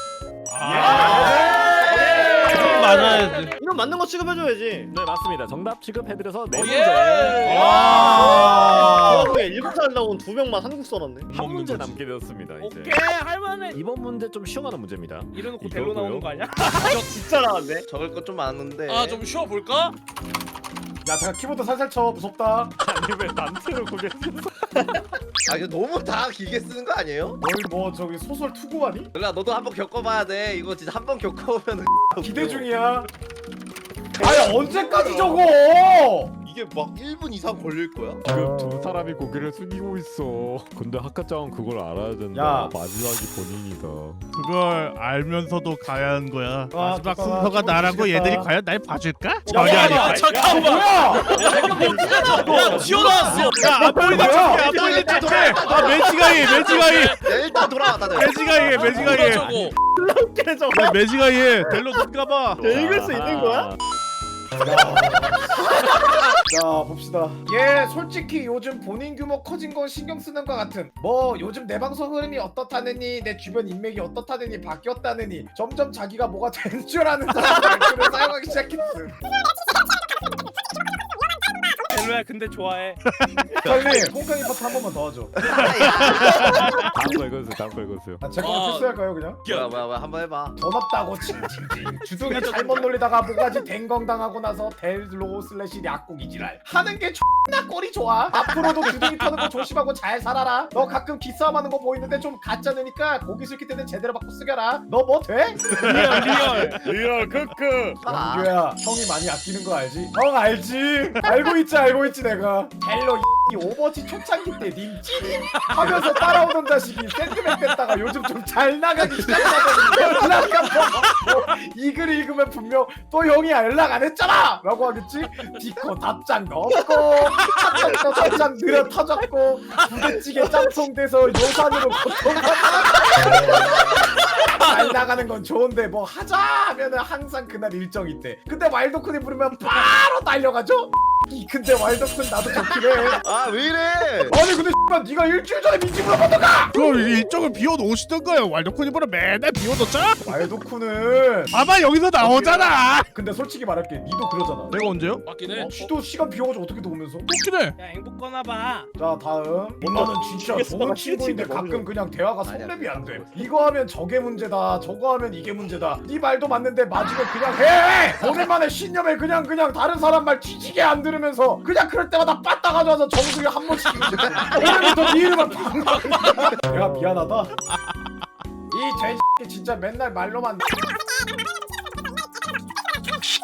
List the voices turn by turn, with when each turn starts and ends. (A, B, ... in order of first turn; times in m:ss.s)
0:00.5-0:01.6 A
0:00.6-0:01.6 B
0:00.8-0:04.9 C
0:00.9-0:02.6 D
0:01.2-0:02.8 E
0:01.3-0:03.5 F
0:02.6-0:03.6 A
0:04.9-0:08.0 G
0:06.5-0:08.9 D
0:07.4-0:09.4 A
0:07.9-0:11.3 C
0:11.3-0:13.0 G
0:11.3-0:12.0 A
0:12.6-0:13.8 F
0:13.7-0:16.4 G
0:15.3-0:17.0 F
0:16.7-0:17.0 D
0:16.8-0:19.2 E
0:18.9-0:20.0 D
0:21.0-0:22.7 B
0:22.8-0:24.7 G
0:25.5-0:27.4 E
0:27.4-0:29.1 B
0:29.2-0:32.7 E
0:32.2-0:33.1 B
0:34.1-0:35.3 E
0:34.2-0:36.4 B
0:36.4-0:38.2 E
0:38.2-0:44.2 G
0:42.3-0:42.7 B
0:44.4-0:50.2 A
0:46.7-0:48.5 B
0:49.5-0:54.7 B
0:49.5-0:53.7 D
0:49.5-0:56.7 C
0:51.2-0:53.5 G
0:52.8-0:57.4 A
0:54.7-0:58.4 E
0:56.6-0:57.2 D
0:58.1-0:59.7 A
0:58.8-0:59.7 D
0:58.9-1:01.1 C
1:00.7-1:02.7 A
1:02.6-1:03.8 G
1:02.6-1:03.7 C
1:04.6-1:05.6 B
1:05.8-1:06.1 E
1:06.4-1:19.2 B
1:17.5-1:18.4 E
1:21.9-1:23.0 F
1:23.6-1:24.0 E
1:23.6-1:25.3 B
1:25.4-1:26.8 E
1:25.9-1:26.8 A
1:26.7-1:28.2 G
1:28.2-1:29.5 B
1:28.4-1:29.8 D
1:29.5-1:30.6 E
1:30.6-1:46.4 B
1:32.3-1:32.9 D
1:38.3-1:39.2 E
1:45.8-1:46.8 F
1:45.8-1:46.7 A
1:45.9-1:48.0 H
1:48.0-1:48.5 E
1:48.0-2:23.2 B
1:59.0-2:00.6 E
2:13.0-2:14.0 E
2:14.6-2:15.1 D
2:23.2-2:24.4 E
2:24.3-2:26.8 B
2:26.7-2:30.4 A
2:30.2-2:31.5 B
2:31.5-2:33.1 A
2:32.2-2:34.8 B
2:34.7-2:35.2 A
2:35.2-2:35.7 D
2:35.5-2:37.3 B
2:37.3-2:37.8 A
2:37.8-2:38.9 F
2:39.0-2:57.5 B
2:39.8-2:41.9 C
2:42.4-2:43.5 E
2:54.0-2:54.9 E
2:54.6-2:56.6 D
2:56.8-2:57.2 C
2:57.7-2:58.1 A
2:58.7-3:00.7 B